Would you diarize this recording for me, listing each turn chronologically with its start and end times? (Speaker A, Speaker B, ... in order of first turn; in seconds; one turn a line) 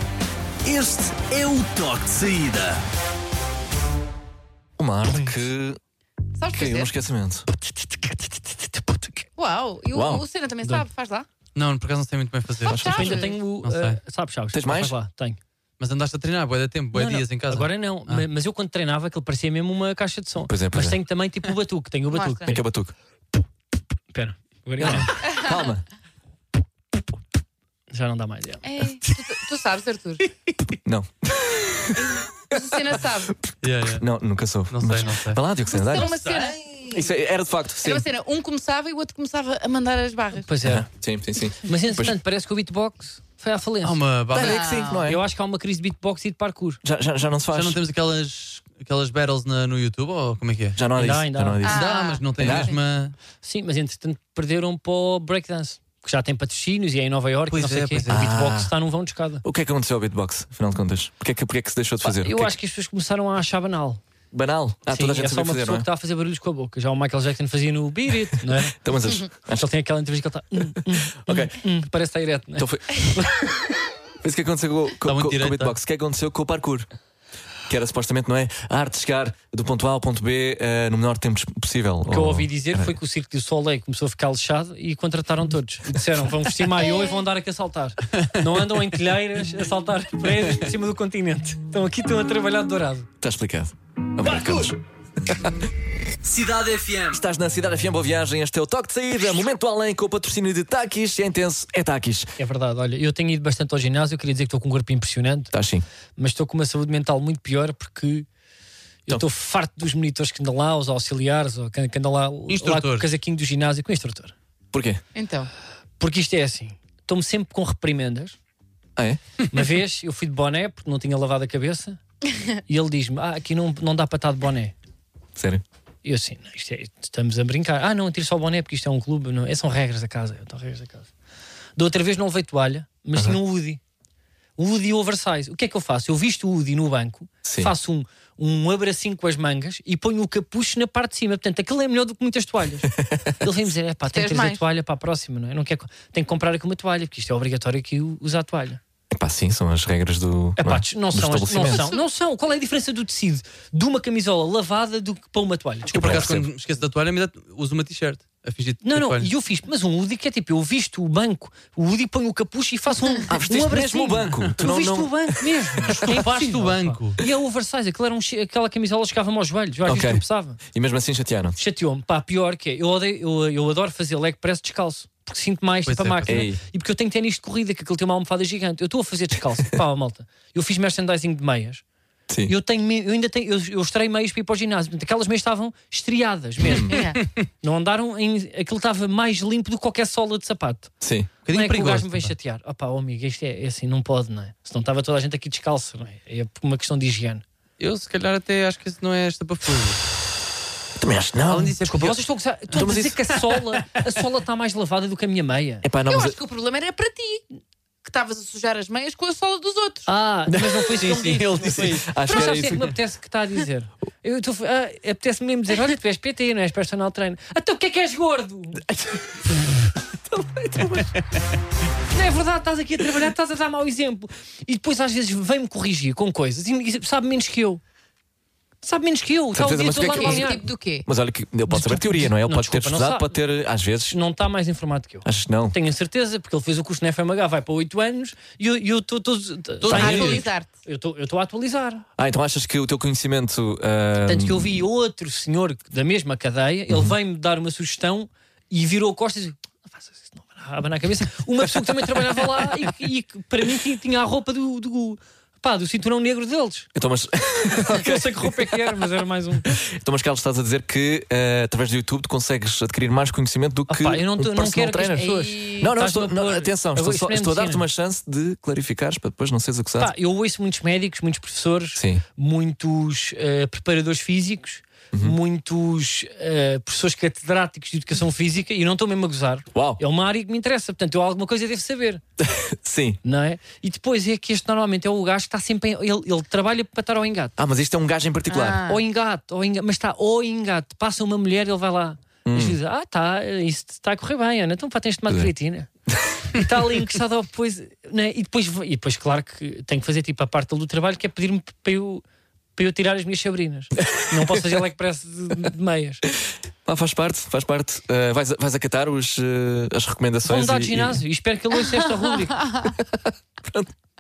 Speaker A: 0.7-2.8
Speaker B: 4.8-5.8
Speaker C: 5.1-5.3
Speaker D: 6.4-6.9
Speaker B: 6.5-7.5
Speaker C: 7.8-9.1
Speaker D: 9.4-11.3
Speaker B: 9.9-10.3
Speaker E: 11.6-14.0
Speaker D: 12.6-13.3
Speaker B: 12.7-13.1
Speaker C: 12.9-15.4
Speaker B: 14.5-14.9
Speaker E: 15.8-18.2
Speaker C: 16.9-22.6
Speaker B: 20.5-21.0
Speaker D: 22.1-22.6
Speaker B: 22.4-22.9
Speaker C: 24.1-25.2
Speaker B: 24.8-25.9
Speaker C: 27.9-28.6
Speaker D: 28.6-30.2
Speaker B: 30.8-32.5
Speaker D: 31.9-33.4
Speaker E: 33.6-34.0
Speaker B: 33.9-36.1
Speaker E: 34.7-36.8
Speaker D: 35.7-37.1
Speaker B: 36.9-38.1
Speaker D: 37.8-40.5
Speaker C: 40.5-40.9
Speaker B: 40.6-42.1
Speaker C: 41.6-44.0
Speaker E: 43.8-44.6
Speaker B: 44.3-45.2
Speaker D: 44.4-45.1
Speaker C: 45.0-46.8
Speaker B: 46.8-47.8
Speaker E: 47.5-50.8
Speaker B: 50.8-51.8
Speaker C: 51.0-51.8
Speaker D: 51.6-52.8
Speaker E: 51.7-53.1
Speaker B: 52.4-52.7
Speaker C: 53.4-59.4
Speaker E: 57.5-58.2
Speaker B: 58.1-58.7
Speaker B: 59.4-62.5
Speaker C: 62.0-64.0
Speaker B: 64.3-65.9
Speaker C: 64.9-68.8
Speaker B: 68.7-69.7
Speaker C: 69.5-73.6
Speaker B: 71.1-71.6
Speaker B: 72.6-73.3
Speaker B: 74.2-76.9
Speaker E: 75.0-75.8
Speaker B: 77.7-83.0
Speaker C: 82.1-93.1
Speaker D: 86.8-87.1
Speaker B: 93.2-95.6
Speaker E: 96.2-97.2
Speaker B: 97.1-102.4
Speaker C: 102.4-105.5
Speaker B: 105.5-105.9
Speaker C: 106.2-108.3
Speaker C: 109.1-114.3
Speaker E: 112.5-113.1
Speaker B: 114.7-115.0
Speaker D: 115.2-115.5
Speaker C: 116.0-118.3
Speaker C: 119.5-122.0
Speaker C: 122.7-124.7
Speaker B: 125.4-125.6
Speaker C: 126.0-131.1
Speaker C: 131.8-133.8
Speaker C: 134.6-148.8
Speaker B: 137.4-137.7
Speaker D: 144.1-144.6
Speaker B: 149.1-151.9
Speaker C: 150.6-156.3
Speaker B: 155.9-156.5
Speaker E: 155.9-159.3
Speaker C: 158.8-170.6
Speaker B: 163.3-166.1
Speaker E: 166.0-167.2
Speaker B: 169.8-171.6
Speaker C: 171.6-181.8
Speaker E: 175.9-176.4
Speaker B: 176.3-176.6
Speaker C: 182.5-190.9
Speaker B: 186.6-187.0
Speaker D: 186.9-187.2
Speaker B: 191.0-191.3
Speaker E: 191.4-192.3
Speaker C: 191.5-197.4
Speaker E: 197.8-200.0
Speaker B: 201.0-201.8
Speaker E: 201.5-202.2
Speaker C: 201.8-205.9
Speaker B: 202.7-203.2
Speaker B: 205.8-206.4
Speaker D: 206.1-207.5
Speaker D: 208.0-210.1
Speaker C: 210.1-218.9
Speaker B: 210.5-210.9
Speaker E: 211.0-212.1
Speaker B: 211.8-212.9
Speaker B: 218.9-219.2
Speaker B: 220.3-221.1
Speaker C: 222.1-227.8
Speaker C: 228.8-230.7
Speaker B: 229.5-234.2
Speaker D: 229.9-231.1
Speaker C: 231.7-233.4
Speaker C: 234.1-242.1
Speaker B: 235.2-235.8
Speaker E: 239.8-240.4
Speaker D: 239.9-240.7
Speaker B: 242.2-244.8
Speaker C: 244.3-256.9
Speaker B: 246.9-247.2
Speaker B: 256.9-259.1
Speaker C: 257.8-259.8
Speaker B: 259.6-270.1
Speaker C: 263.9-267.9
Speaker D: 265.3-265.8
Speaker C: 270.0-282.2
Speaker B: 272.0-272.2
Speaker B: 279.7-280.0
Speaker B: 282.4-283.2
Speaker C: 283.2-287.6
Speaker B: 287.6-288.8
Speaker D: 288.5-289.0
Speaker C: 288.9-295.9
Speaker B: 292.5-292.8
Speaker C: 296.5-302.2
Speaker C: 302.8-306.2
Speaker B: 304.1-304.6
Speaker B: 306.9-311.2
Speaker C: 310.4-312.7
Speaker B: 312.9-313.9